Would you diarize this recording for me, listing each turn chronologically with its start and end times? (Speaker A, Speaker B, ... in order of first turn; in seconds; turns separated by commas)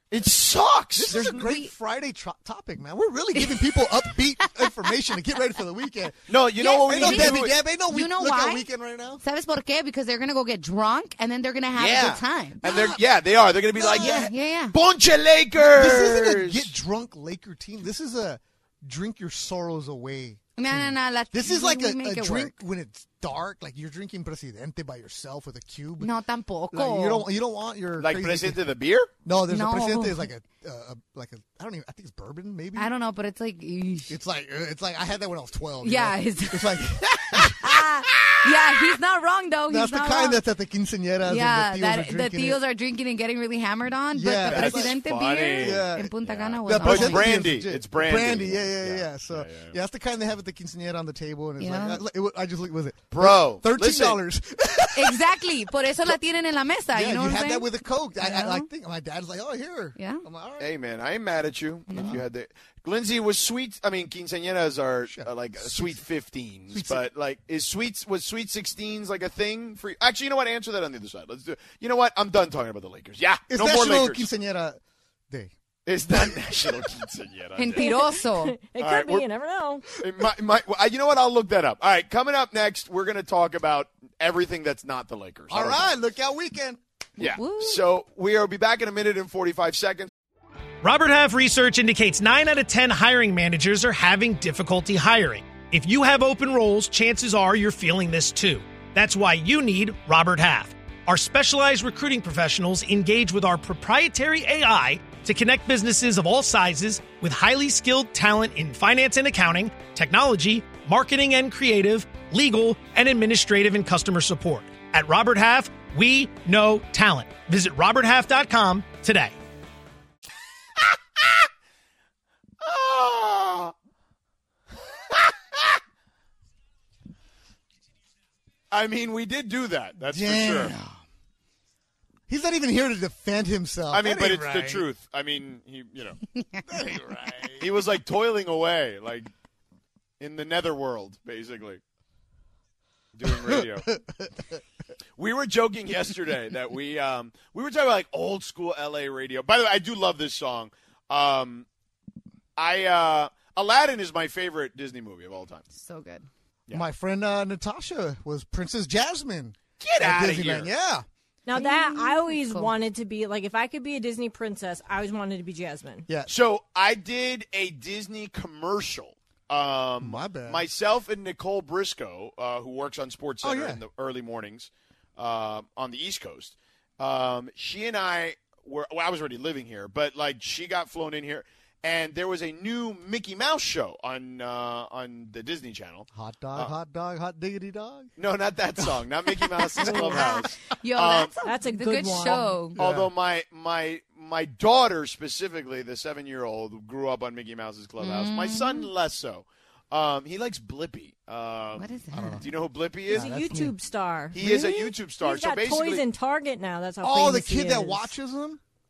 Speaker A: 0.1-1.4, Speaker B: 1.0-6.3, Speaker C: 1.2-1.7, Speaker C: 3.4-4.9, Speaker A: 6.3-7.6, Speaker C: 6.6-8.7, Speaker B: 6.8-9.2, Speaker C: 9.2-12.7, Speaker A: 11.8-16.7, Speaker B: 12.6-13.0, Speaker B: 13.8-14.3, Speaker C: 13.8-14.8, Speaker B: 15.6-26.1, Speaker C: 20.6-22.6, Speaker C: 26.0-27.3, Speaker B: 26.7-28.6, Speaker A: 28.0-29.1, Speaker B: 29.2-32.9, Speaker C: 29.5-30.3, Speaker C: 32.8-34.2, Speaker B: 34.1-37.9, Speaker C: 35.8-40.4, Speaker B: 39.7-42.6, Speaker C: 41.2-47.3, Speaker B: 44.1-45.0, Speaker A: 44.5-49.8, Speaker B: 45.6-55.5, Speaker C: 51.6-52.0, Speaker A: 53.1-54.2, Speaker C: 55.0-58.7, Speaker B: 56.9-60.7, Speaker C: 60.0-60.2, Speaker A: 60.6-74.3, Speaker C: 61.9-62.2, Speaker B: 62.0-62.2, Speaker B: 65.1-66.0, Speaker B: 66.7-67.0, Speaker B: 73.5-75.5, Speaker A: 75.9-77.9, Speaker B: 76.1-76.8, Speaker C: 77.6-78.5, Speaker D: 77.8-79.9, Speaker A: 78.8-79.2, Speaker A: 80.0-85.9, Speaker B: 85.5-86.8, Speaker A: 87.2-90.1, Speaker C: 87.2-87.8, Speaker E: 90.8-119.3, Speaker A: 122.6-123.7, Speaker A: 125.1-125.8, Speaker A: 128.7-130.8, Speaker B: 130.1-131.0, Speaker B: 132.3-134.9, Speaker A: 133.9-136.2, Speaker B: 136.7-137.7, Speaker A: 137.6-139.3, Speaker A: 140.2-141.8, Speaker A: 143.2-143.9, Speaker B: 143.2-144.6, Speaker A: 145.2-151.7, Speaker A: 152.6-155.7, Speaker C: 155.7-156.3, Speaker B: 156.7-161.1, Speaker A: 159.8-160.7, Speaker D: 161.5-166.1, Speaker C: 161.6-162.7, Speaker A: 166.3-186.7, Speaker B: 170.0-170.7, Speaker B: 173.4-173.8, Speaker B: 186.1-188.1, Speaker A: 188.2-191.3, Speaker B: 188.8-189.7, Speaker C: 189.8-192.8, Speaker D: 189.8-190.3, Speaker D: 191.4-192.7, Speaker B: 192.8-193.1, Speaker A: 192.8-203.4, Speaker C: 198.0-198.9, Speaker C: 201.8-202.5, Speaker B: 202.1-202.5, Speaker D: 203.1-208.1, Speaker B: 203.1-203.7, Speaker A: 204.3-206.0, Speaker B: 207.0-208.6